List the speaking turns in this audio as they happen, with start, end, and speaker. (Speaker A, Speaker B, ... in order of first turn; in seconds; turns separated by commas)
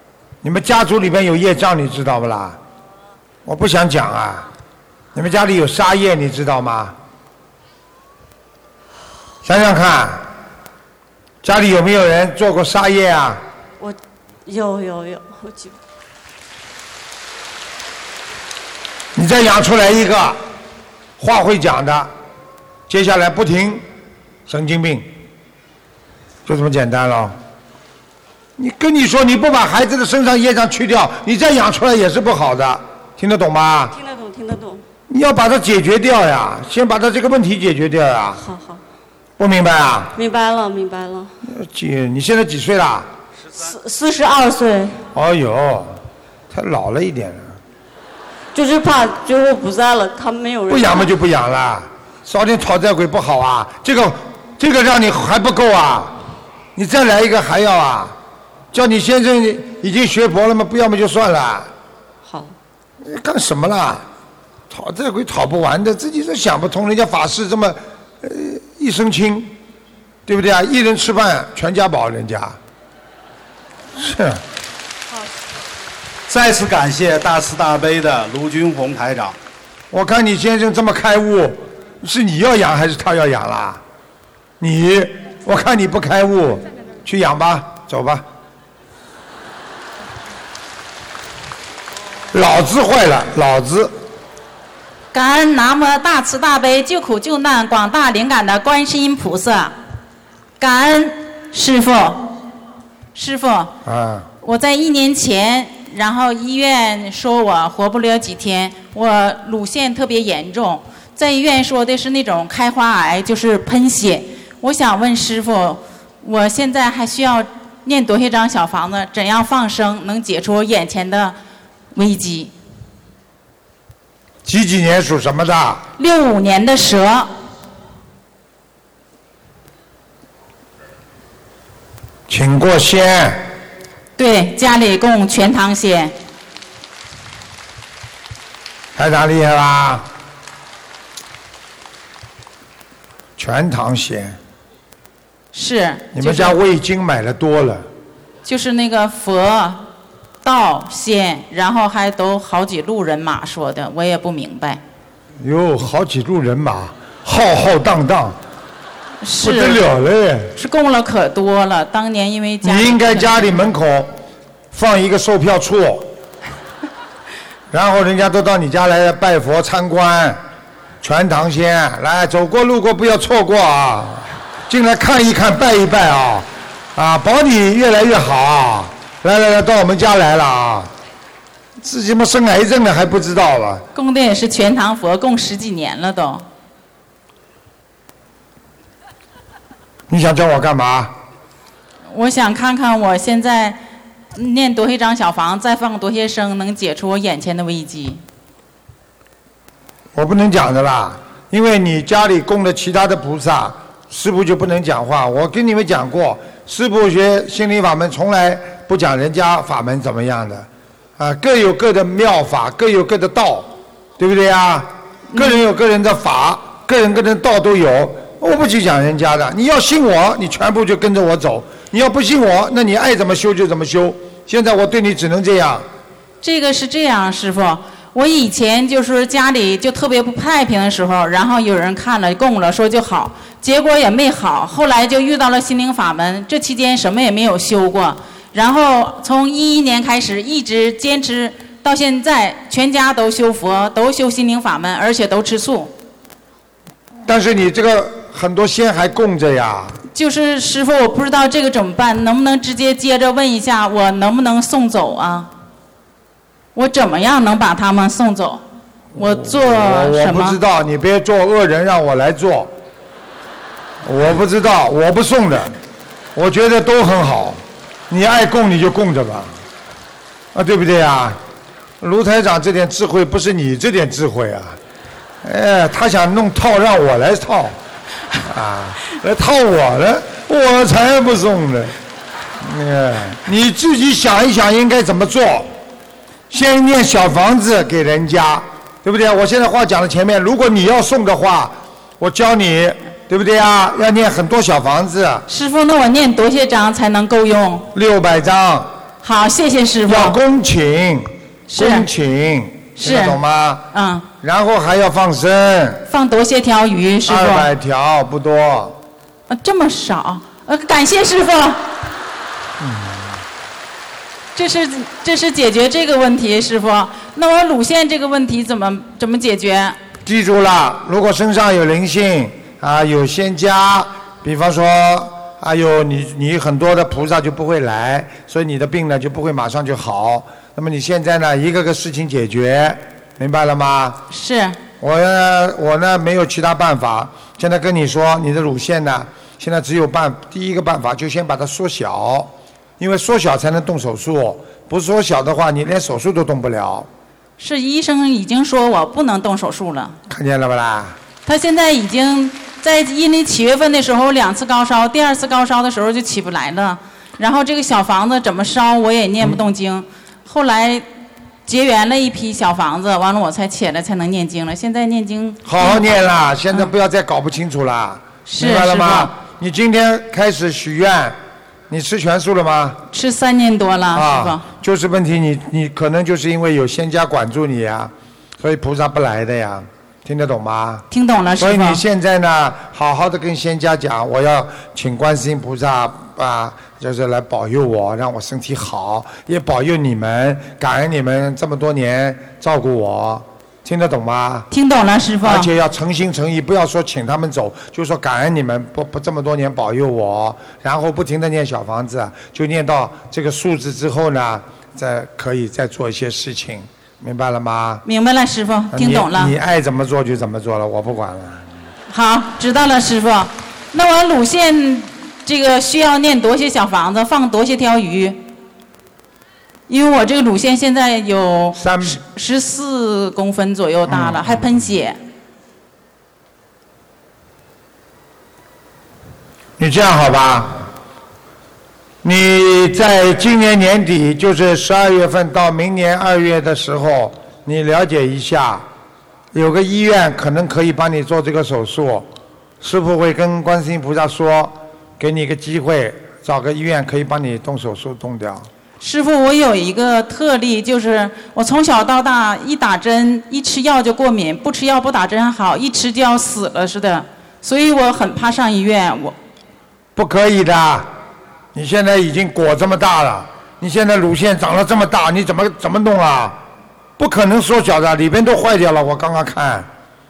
Speaker A: 0.4-2.6, Speaker A: 3.4-4.5, Speaker A: 5.1-6.9, Speaker A: 9.4-10.2, Speaker A: 11.4-13.4, Speaker B: 13.8-15.8, Speaker A: 19.1-20.4, Speaker A: 21.2-22.1, Speaker A: 22.9-23.8, Speaker A: 24.5-25.1, Speaker A: 26.5-27.4, Speaker A: 28.6-33.9, Speaker B: 33.9-34.8, Speaker A: 35.1-38.4, Speaker B: 38.4-38.8, Speaker A: 39.4-40.1, Speaker B: 40.1-41.3, Speaker A: 41.4-43.1, Speaker B: 43.6-45.0, Speaker A: 45.1-46.0, Speaker A: 46.5-47.5, Speaker B: 48.5-51.1, Speaker A: 50.7-56.1, Speaker A: 56.8-58.1, Speaker A: 58.7-61.7, Speaker B: 62.2-62.5, Speaker A: 63.0-64.0, Speaker A: 64.7-69.5, Speaker A: 70.3-72.6, Speaker A: 74.0-74.4, Speaker C: 76.3-79.4, Speaker A: 79.9-83.8, Speaker A: 84.6-88.2, Speaker A: 92.3-93.9, Speaker D: 95.1-99.7, Speaker D: 100.6-102.2, Speaker D: 103.1-103.7, Speaker A: 103.8-104.3, Speaker D: 104.4-121.3, Speaker D: 121.9-122.5, Speaker A: 124.5-125.8, Speaker D: 126.0-127.3, Speaker A: 132.3-133.5, Speaker D: 134.2-136.1, Speaker A: 138.9-140.1, Speaker A: 143.4-144.4, Speaker D: 145.5-146.6, Speaker A: 146.1-147.8, Speaker D: 148.4-149.8, Speaker D: 150.4-154.8, Speaker A: 155.4-158.4, Speaker D: 159.2-159.8, Speaker A: 159.4-160.5, Speaker D: 160.6-163.6, Speaker A: 162.6-164.1, Speaker A: 164.7-166.1, Speaker A: 167.7-170.4, Speaker A: 171.0-180.9, Speaker A: 181.8-183.8, Speaker D: 183.9-186.4, Speaker A: 190.1-191.1, Speaker D: 192.1-193.8, Speaker D: 194.3-198.2, Speaker A: 200.1-210.7, Speaker A: 211.2-225.8, Speaker D: 215.3-215.6, Speaker D: 226.4-245.9, Speaker A: 247.3-249.9, Speaker D: 250.1-255.5, Speaker D: 256.7-258.6, Speaker D: 259.1-260.6, Speaker A: 259.1-262.7, Speaker A: 264.0-265.8, Speaker A: 266.3-269.6, Speaker A: 270.5-271.4, Speaker A: 272.0-274.8, Speaker A: 275.4-277.8, Speaker A: 278.4-281.9, Speaker A: 282.6-285.7, Speaker A: 286.5-295.4, Speaker D: 295.5-297.9, Speaker A: 297.9-298.9, Speaker D: 299.2-300.4, Speaker A: 300.1-303.8, Speaker D: 301.7-302.1, Speaker D: 303.0-303.4, Speaker D: 303.9-304.3, Speaker A: 304.4-306.0, Speaker D: 306.1-307.7, Speaker A: 307.2-308.9, Speaker D: 309.5-311.9, Speaker A: 312.8-313.3, Speaker D: 314.5-320.0, Speaker A: 320.2-334.2, Speaker D: 334.3-334.8, Speaker A: 335.0-347.1, Speaker D: 347.6-350.1, Speaker A: 350.3-351.2, Speaker D: 351.4-361.0, Speaker D: 361.6-366.1, Speaker A: 365.6-371.4, Speaker D: 368.4-369.3, Speaker A: 371.9-373.0, Speaker D: 373.1-374.6, Speaker A: 374.1-381.0, Speaker D: 381.1-382.0, Speaker A: 381.6-394.7, Speaker D: 394.7-395.7, Speaker A: 395.4-408.0, Speaker D: 408.0-409.5, Speaker A: 408.9-411.7, Speaker D: 412.1-418.4, Speaker D: 419.9-425.2, Speaker A: 421.7-422.2, Speaker A: 424.1-424.8, Speaker A: 429.8-430.9, Speaker A: 432.2-438.8, Speaker A: 439.5-442.3, Speaker A: 442.8-448.7, Speaker D: 449.0-459.3, Speaker A: 460.1-461.1, Speaker A: 461.7-466.6, Speaker A: 467.2-469.9